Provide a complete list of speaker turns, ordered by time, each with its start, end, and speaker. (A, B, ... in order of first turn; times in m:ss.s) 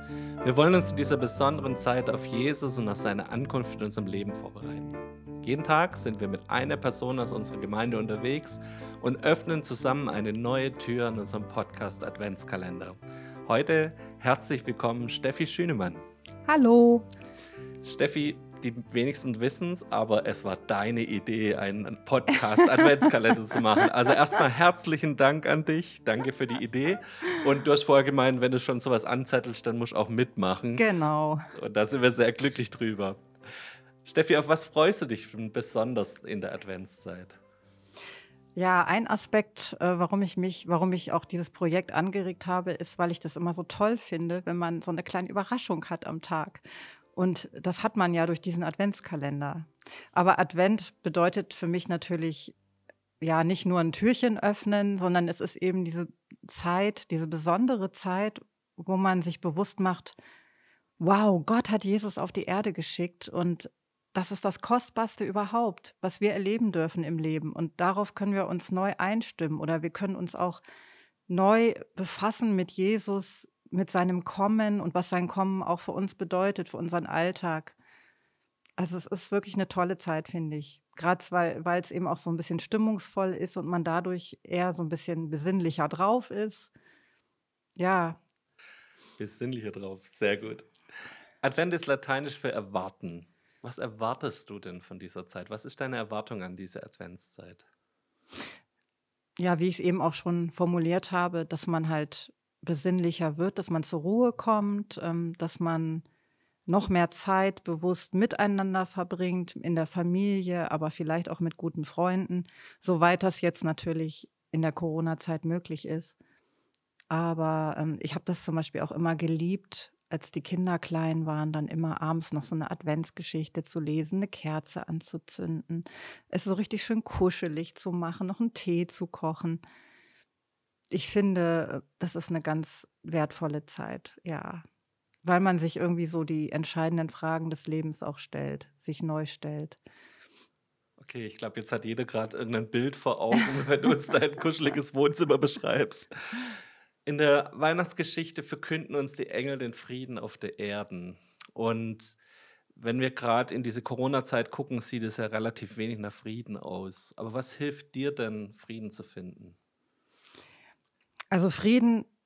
0:00.4-0:16.0 A
0:16.4-0:17.0 B
0:17.8-0:30.8 A
0:22.6-0:22.9 B
0:30.7-0:31.4 B
0:31.5-0:33.2 A
0:34.0-0:37.4 A
0:38.6-0:52.5 B
0:53.2-1:00.2 B
1:01.0-1:10.6 B
1:11.3-1:17.8 B
1:18.8-1:26.7 B
1:27.8-1:28.2 B
1:29.2-1:30.7 A
1:31.4-1:37.6 A
1:39.4-1:46.0 B
1:46.7-1:56.2 B
1:57.1-2:09.6 B
2:10.9-2:14.6 B
2:15.2-2:19.8 B
2:21.0-2:26.5 A
2:27.0-2:32.2 A
2:32.8-2:39.6 A
2:41.3-2:42.1 B